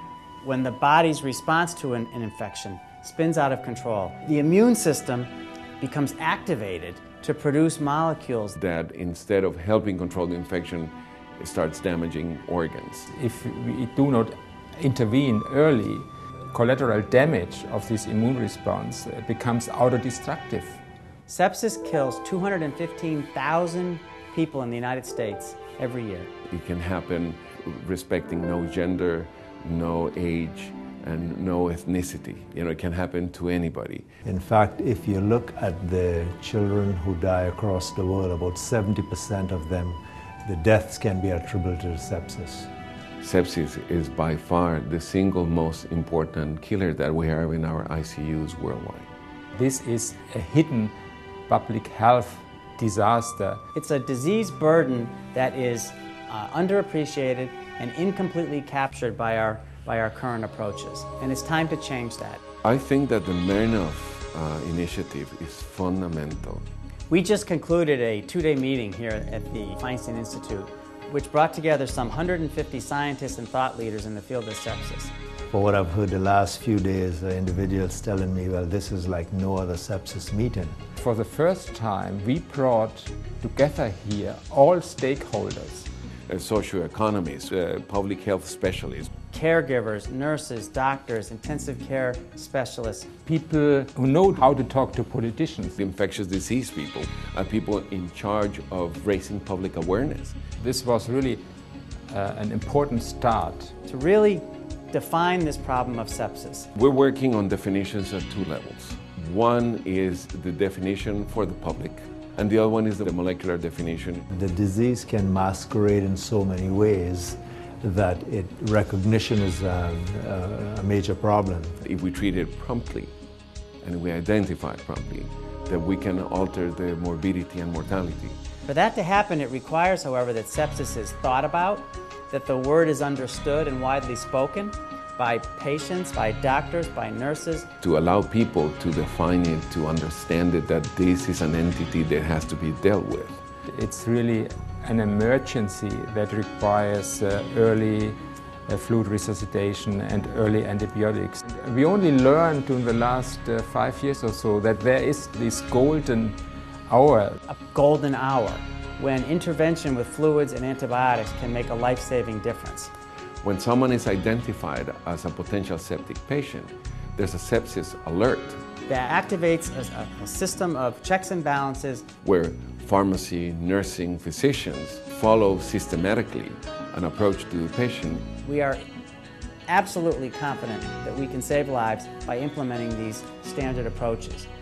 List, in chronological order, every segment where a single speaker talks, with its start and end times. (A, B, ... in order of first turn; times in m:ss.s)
0:00.4-0:08.5 A
0:08.5-0:13.1 B
0:13.1-0:20.8 C
0:21.3-0:26.3 A
0:26.5-0:34.0 B
0:34.2-0:42.7 D
0:43.2-0:49.1 B
0:49.5-0:50.9 C
0:51.5-0:53.6 C
0:53.7-1:02.4 A
1:02.6-1:06.6 B
1:07.1-1:15.1 A
1:15.5-1:20.8 D
1:21.0-1:25.9 C
1:26.3-1:29.1 B
1:29.3-1:33.1 A
1:33.2-1:35.8 C
1:35.8-1:40.4 B
1:40.6-1:41.4 C
1:42.1-1:43.7 C
1:43.8-1:46.7 A
1:46.7-1:54.2 B
1:54.3-2:01.8 D
2:01.8-2:03.1 B
2:03.8-2:08.4 B
2:08.6-2:17.7 A
2:17.8-2:23.4 B
2:23.7-2:37.4 C
2:37.5-2:42.9 A
2:43.4-2:48.6 B
2:48.9-2:52.0 A
2:52.2-2:58.3 B
2:58.4-2:58.8 A
2:59.7-3:04.5 A